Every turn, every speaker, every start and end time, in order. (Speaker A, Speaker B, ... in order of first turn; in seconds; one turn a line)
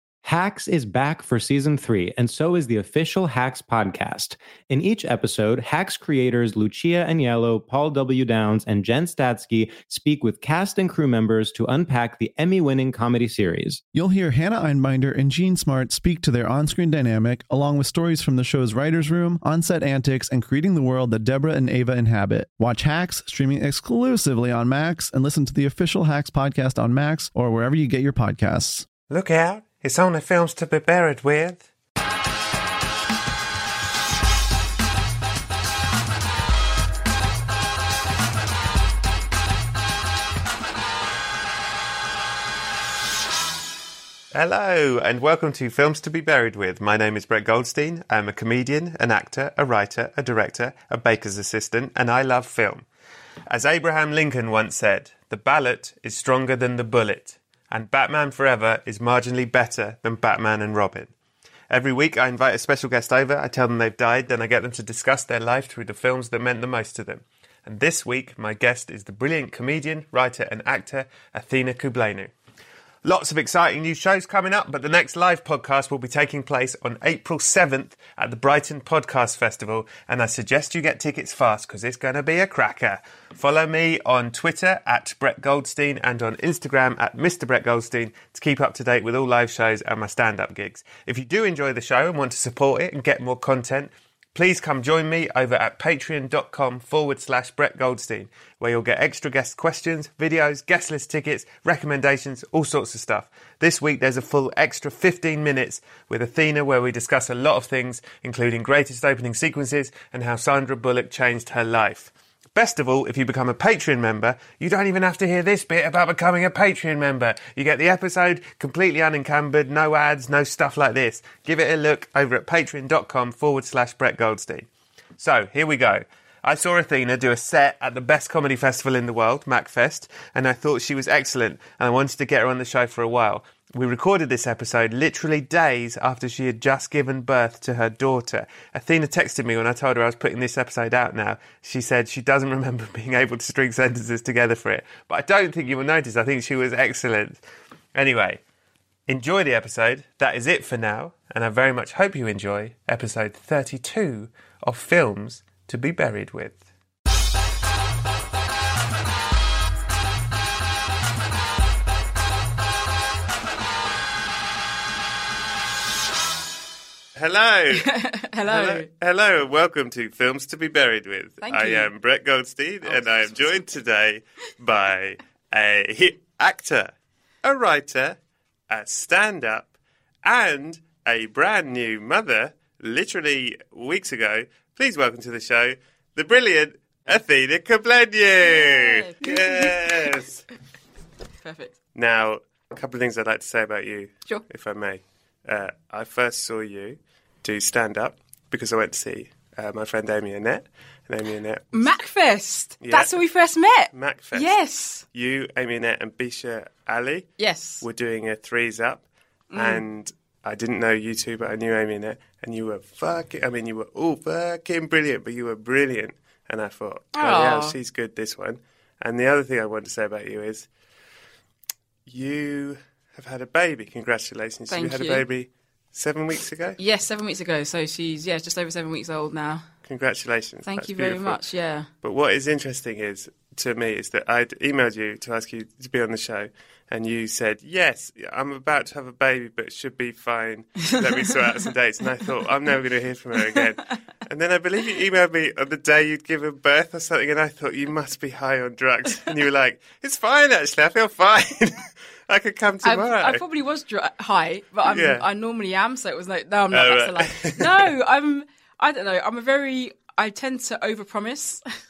Speaker A: 0.2-13.8
Speaker B: 13.9-28.9
Speaker C: 29.1-31.6
Speaker C: 44.3-52.9
Speaker C: 53.5-61.1
Speaker C: 61.7-72.3
Speaker C: 73.0-124.7
Speaker C: 125.2-147.4
Speaker C: 147.9-148.4
Speaker C: 149.1-156.6
Speaker C: 167.2-167.9
Speaker D: 167.7-168.9
Speaker C: 168.4-176.9
Speaker D: 171.4-171.9
Speaker D: 172.8-173.6
Speaker C: 177.4-178.2
Speaker C: 178.7-179.7
Speaker C: 180.2-190.4
Speaker D: 188.4-190.2
Speaker D: 191.4-191.7
Speaker C: 191.9-201.9
Speaker D: 201.7-205.0
Speaker C: 202.8-203.2
Speaker C: 203.9-209.0
Speaker D: 207.4-207.8
Speaker D: 209.5-209.8
Speaker C: 209.5-220.7
Speaker D: 217.1-217.7
Speaker C: 222.1-226.8
Speaker D: 224.7-225.2
Speaker D: 226.8-229.7
Speaker C: 229.8-231.4
Speaker D: 230.7-231.9
Speaker C: 232.0-253.4
Speaker D: 240.9-241.3
Speaker D: 252.8-261.6
Speaker C: 254.8-255.3
Speaker C: 256.7-257.9